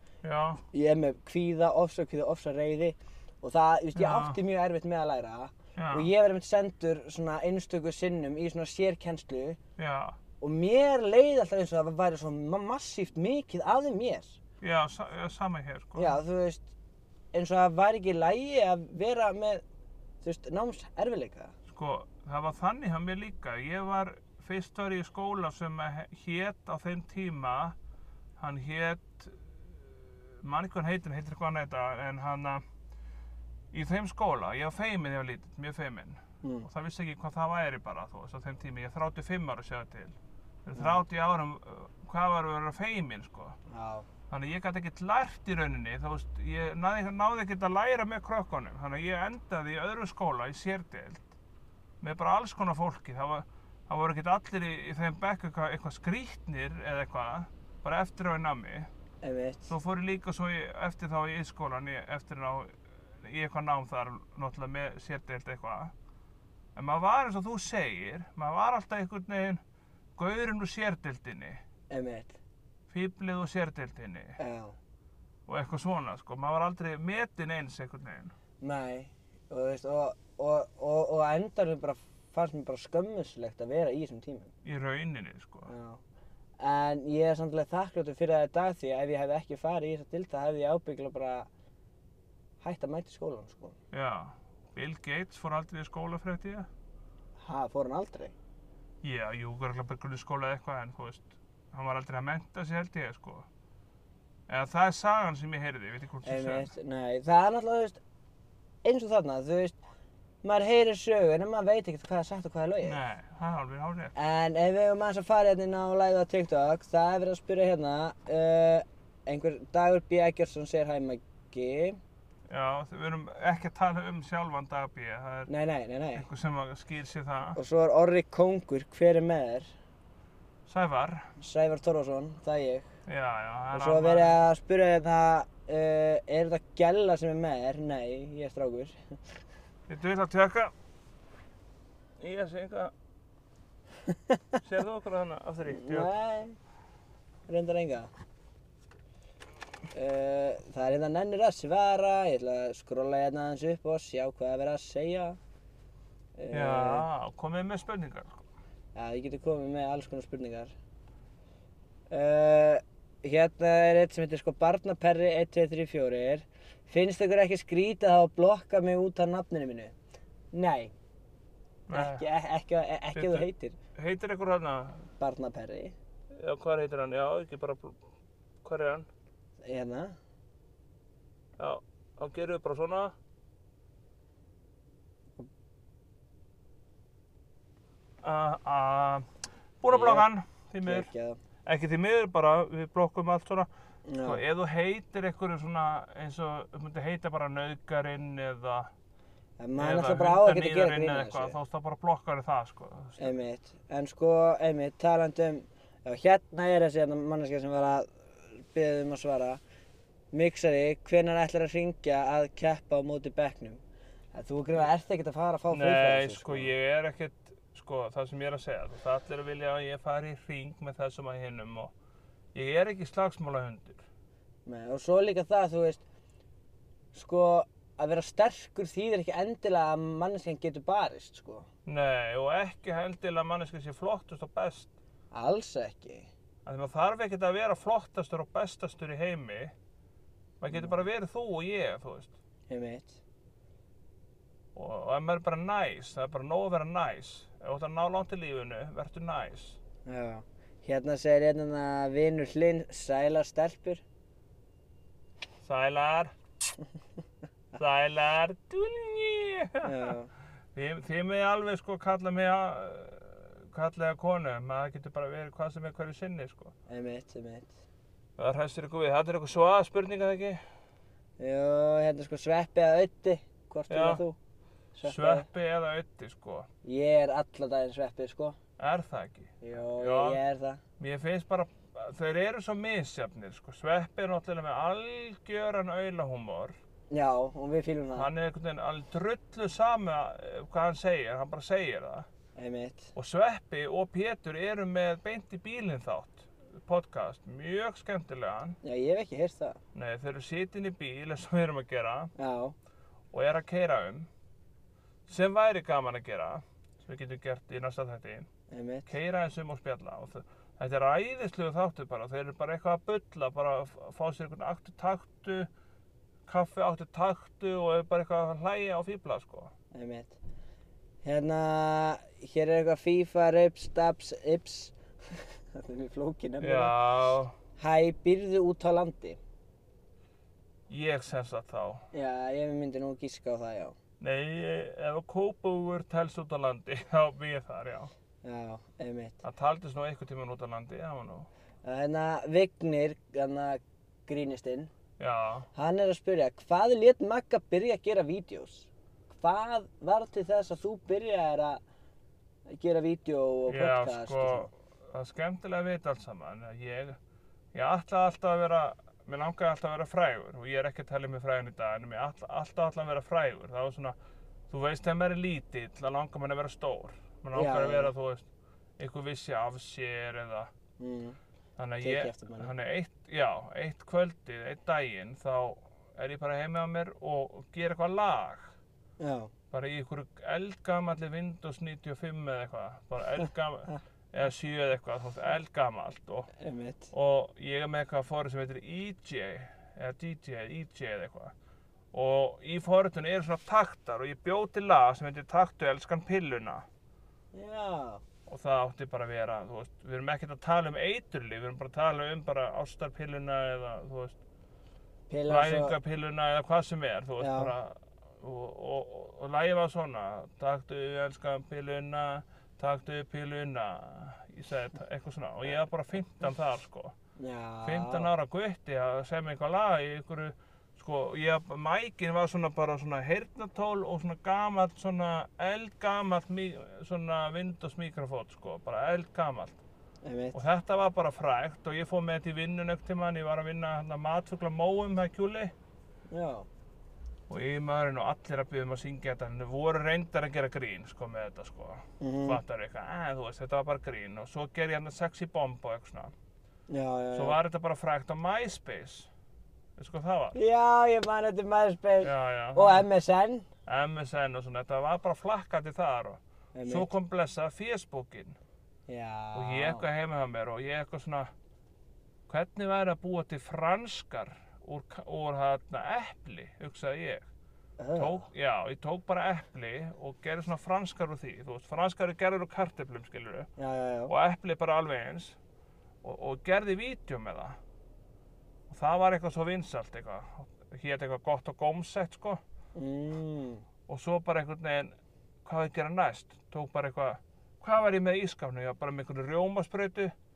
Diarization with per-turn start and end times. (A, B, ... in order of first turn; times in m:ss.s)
0:00.2-0:00.6 A
0:00.7-0:09.6 B
0:04.0-0:04.4 A
0:05.8-0:06.1 A
0:09.8-0:10.2 A
0:10.4-0:14.4 B
0:14.6-0:16.2 A
0:16.0-0:16.7 B
0:17.3-0:19.6 B
0:20.2-0:21.5 B
0:21.7-0:27.8 A
0:28.4-0:29.4 A
0:30.4-0:32.6 A
0:33.7-0:43.6 A
0:36.4-0:36.7 B
0:43.7-0:44.1 B
0:44.3-0:51.3 A
0:52.0-0:58.9 A
0:59.2-0:59.7 B
0:59.7-1:05.9 A
1:06.8-1:09.6 A
1:10.2-1:11.6 A
1:11.9-1:12.4 B
1:12.9-1:14.4 A
1:14.4-1:14.8 B
1:15.5-1:18.4 A
1:18.6-1:24.5 B
1:24.6-1:25.7 A
1:25.7-1:26.0 B
1:26.6-1:31.5 B
1:32.6-1:33.8 B
1:33.9-1:36.7 A
1:37.4-1:38.3 B
1:39.0-1:43.5 A
1:44.5-1:46.7 A
1:46.2-1:48.0 B
1:48.8-1:49.8 B
1:50.4-1:53.0 B
1:52.8-1:54.1 A
1:54.2-2:02.0 B
2:02.5-2:05.5 A
2:05.5-2:06.3 B
2:06.2-2:07.6 A
2:07.6-2:09.7 B
2:10.7-2:11.3 A
2:11.4-2:12.9 B
2:13.1-2:14.4 A
2:13.7-2:19.3 B
2:19.9-2:20.7 A
2:22.2-2:22.9 A
2:24.1-2:24.4 B
2:24.6-2:26.1 A
2:25.7-2:26.6 B
2:27.5-2:28.1 B
2:29.9-2:35.4 B
2:36.4-2:37.1 B
2:36.5-2:38.5 A
2:39.0-2:40.7 B
2:42.1-2:50.0 B
2:50.5-2:50.9 B
2:51.9-2:52.3 A
2:51.9-2:53.8 B
2:53.1-2:55.1 A
2:55.2-2:56.0 B
2:56.4-2:58.0 A
2:58.6-2:59.1 A
2:59.6-3:00.2 B
3:01.6-3:03.1 A
3:08.2-3:09.3 A
3:09.8-3:11.1 A
3:09.9-3:10.3 B
3:10.8-3:11.4 B
3:11.7-3:13.7 A
3:14.1-3:14.4 B
3:14.2-3:18.9 A
3:19.6-3:21.6 B
3:19.8-3:23.4 A
3:23.2-3:29.6 B
3:30.3-3:33.8 B
3:34.3-3:36.7 B
3:35.7-3:41.9 A
3:42.5-3:44.0 A
3:44.7-3:46.0 B
3:47.1-3:51.7 B
3:51.9-3:54.9 A
3:55.3-3:56.3 B
3:56.6-3:59.7 A
4:00.6-4:02.3 A
4:00.7-4:01.0 B
4:02.7-4:03.2 B
4:04.8-4:09.8 A
4:10.0-4:14.0 B
4:15.6-4:16.3 A
4:17.7-4:20.1 A
4:19.8-4:20.3 B
4:20.7-4:26.7 A
4:26.9-4:27.8 B
4:28.4-4:30.6 A
4:31.4-4:34.4 B
4:33.9-4:34.2 A
4:34.9-4:35.5 B
4:35.0-4:36.7 A
4:36.8-4:38.6 B
4:38.8-4:40.4 A
4:39.6-4:40.8 B
4:41.0-4:46.8 A
4:47.1-4:48.3 B
4:48.2-4:52.3 A
4:52.6-4:53.1 B
4:53.2-4:58.8 A
4:58.8-4:59.8 B
5:00.0-5:02.3 A
5:02.4-5:02.8 B
5:03.3-5:04.3 A
5:05.3-5:08.5 A
5:08.7-5:09.1 B
5:09.1-5:15.7 A
5:16.5-5:19.7 A
5:19.9-5:20.4 B
5:21.2-5:27.0 B
5:26.6-5:27.6 A
5:27.8-5:29.4 B
5:30.9-5:32.0 A
5:32.1-5:34.0 B
5:34.2-5:38.1 A
5:38.4-5:39.4 B
5:39.4-5:41.5 A
5:41.8-5:44.9 B
5:45.2-5:45.7 A
5:45.7-5:51.8 B
5:52.7-5:54.7 B
5:53.7-5:57.2 A
5:57.7-6:04.2 A
6:04.7-6:08.5 A
6:07.5-6:08.1 B
6:09.0-6:10.7 A
6:11.0-6:11.4 B
6:11.8-6:18.7 A
6:12.0-6:12.7 B
6:19.2-6:19.5 B
6:19.7-6:26.5 A
6:26.6-6:27.1 B
6:27.1-6:31.5 A
6:32.1-6:36.9 A
6:37.5-6:38.2 B
6:38.5-6:44.4 A
6:45.3-6:46.0 B
6:45.5-6:57.2 A
6:47.4-6:47.7 B
6:57.4-6:58.3 B
6:57.8-7:09.8 A
7:10.2-7:10.6 B
7:10.5-7:15.7 A
7:16.3-7:16.7 B
7:17.5-7:26.3 A
7:22.2-7:22.6 B
7:26.9-7:27.6 B
7:27.3-7:29.3 A
7:30.0-7:30.6 A
7:30.6-7:33.7 B
7:32.2-7:33.1 A
7:33.9-7:38.6 A
7:36.7-7:37.1 B
7:39.1-7:40.1 B
7:39.5-7:41.5 A
7:42.5-7:47.5 A
7:48.0-7:48.5 B
7:48.2-7:53.7 A
7:53.8-7:54.3 B
7:54.3-7:55.6 A
7:56.2-7:57.8 A
7:58.9-8:02.6 A
8:03.0-8:03.8 B
8:04.1-8:05.1 A
8:05.6-8:10.3 A